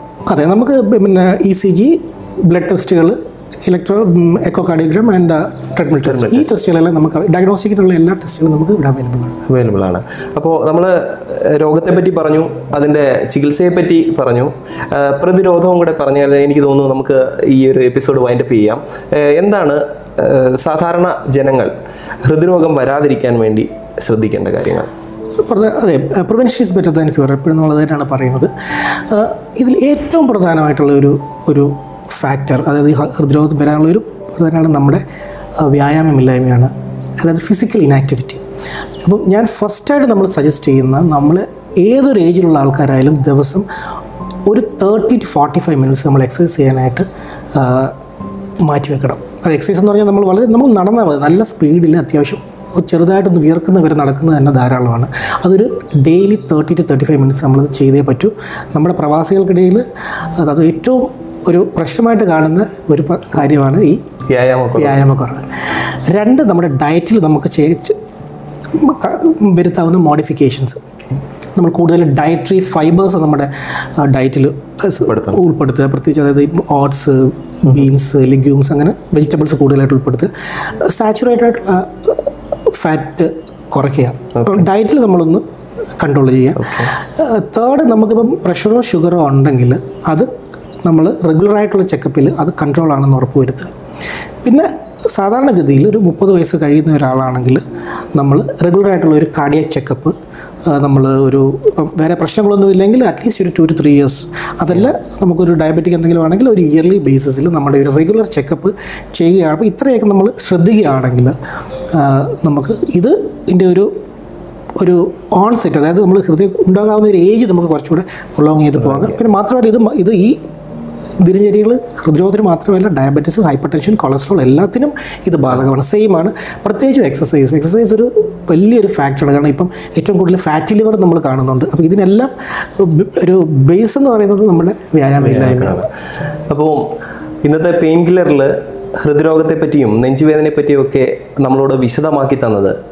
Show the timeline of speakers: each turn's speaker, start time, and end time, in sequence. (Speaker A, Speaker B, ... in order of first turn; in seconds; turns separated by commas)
Speaker A: 0.3-9.3, Speaker B: 6.0-6.5, Speaker B: 9.5-21.7, Speaker B: 22.3-24.9, Speaker A: 25.4-35.0, Speaker A: 35.6-38.4, Speaker A: 39.0-43.7, Speaker A: 44.5-48.0, Speaker A: 48.6-64.1, Speaker B: 64.3-65.0, Speaker A: 64.8-68.0, Speaker A: 68.7-70.9, Speaker A: 71.6-85.4, Speaker B: 75.1-75.3, Speaker A: 86.0-90.3, Speaker A: 90.8-93.7, Speaker A: 94.4-97.6, Speaker A: 98.2-100.1, Speaker A: 100.7-111.3, Speaker A: 111.9-113.9, Speaker A: 114.8-120.4, Speaker A: 121.2-135.9, Speaker B: 135.2-135.9, Speaker B: 136.5-136.9, Speaker B: 137.4-142.8